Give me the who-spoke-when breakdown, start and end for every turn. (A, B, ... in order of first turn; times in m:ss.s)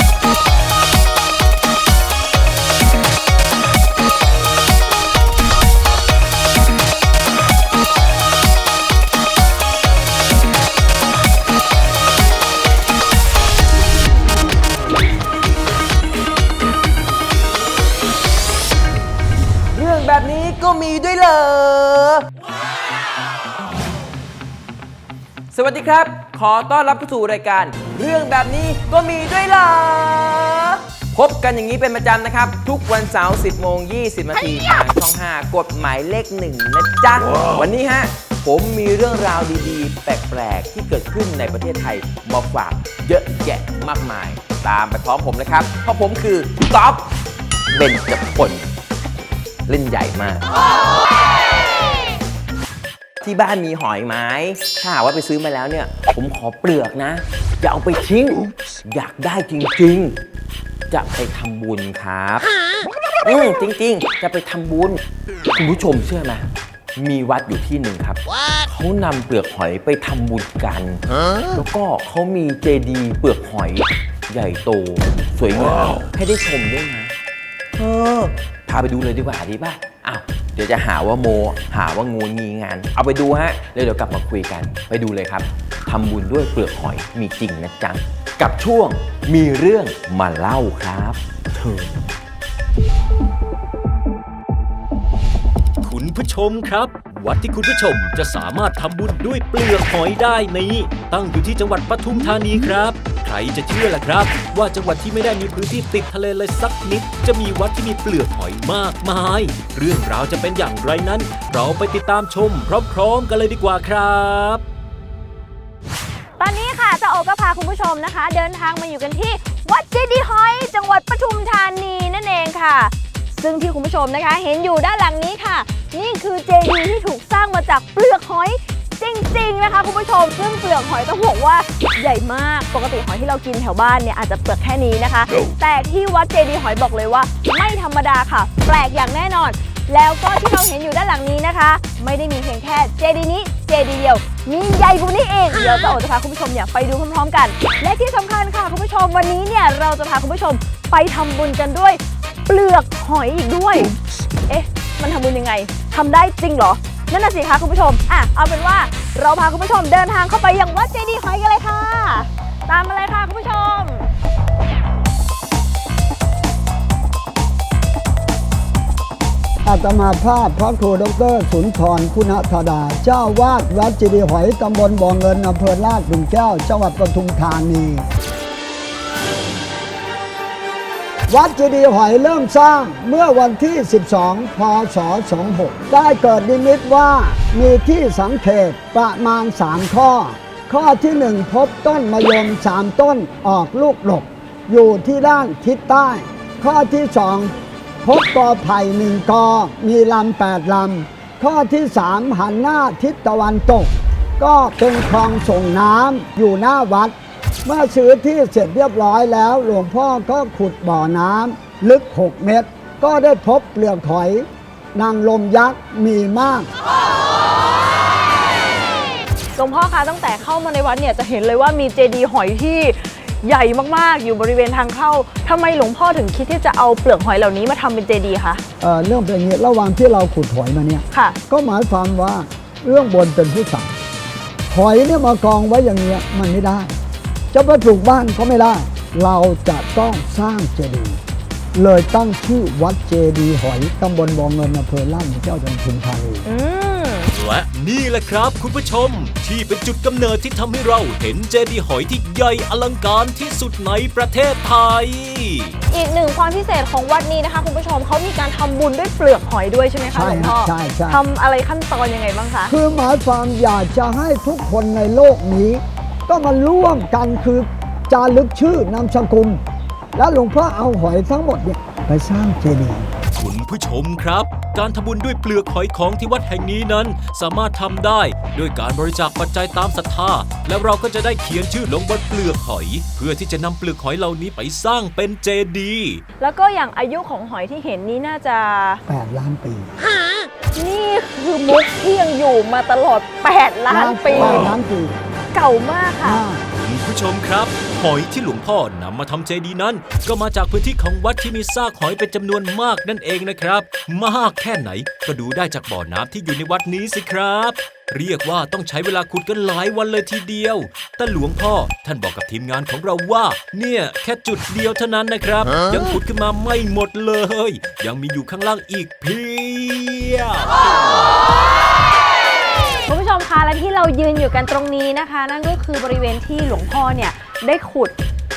0:19.7-0:22.2 A
0:25.5-0:47.1 A
0:47.7-0:48.7 A
0:49.7-0:50.5 A
0:53.2-1:00.2 A
1:00.9-1:02.5 A
1:03.2-1:05.0 A
1:05.5-1:17.1 A
1:17.8-1:32.0 A
1:35.8-1:54.6 B
1:56.4-2:44.1 C
2:49.6-2:58.0 D
3:01.3-3:36.7 D
3:39.5-3:48.6 C
3:48.8-3:53.9 D
3:51.1-3:51.4 C
3:54.7-3:56.9 D
3:57.5-4:01.2 D
4:01.7-4:06.4 D
4:06.4-4:07.3 C
4:07.3-4:15.7 B
4:15.9-4:22.7 C
4:20.1-4:21.2 D
4:22.7-4:29.6 D
4:30.1-4:33.1 D
4:33.4-4:46.2 B
4:46.4-4:49.0 C
4:49.1-4:49.9 D
4:50.7-4:54.7 C
4:53.9-4:55.1 D
4:55.5-4:56.4 C
4:56.2-4:56.6 D
4:56.8-5:20.7 B
5:23.0-5:28.1 C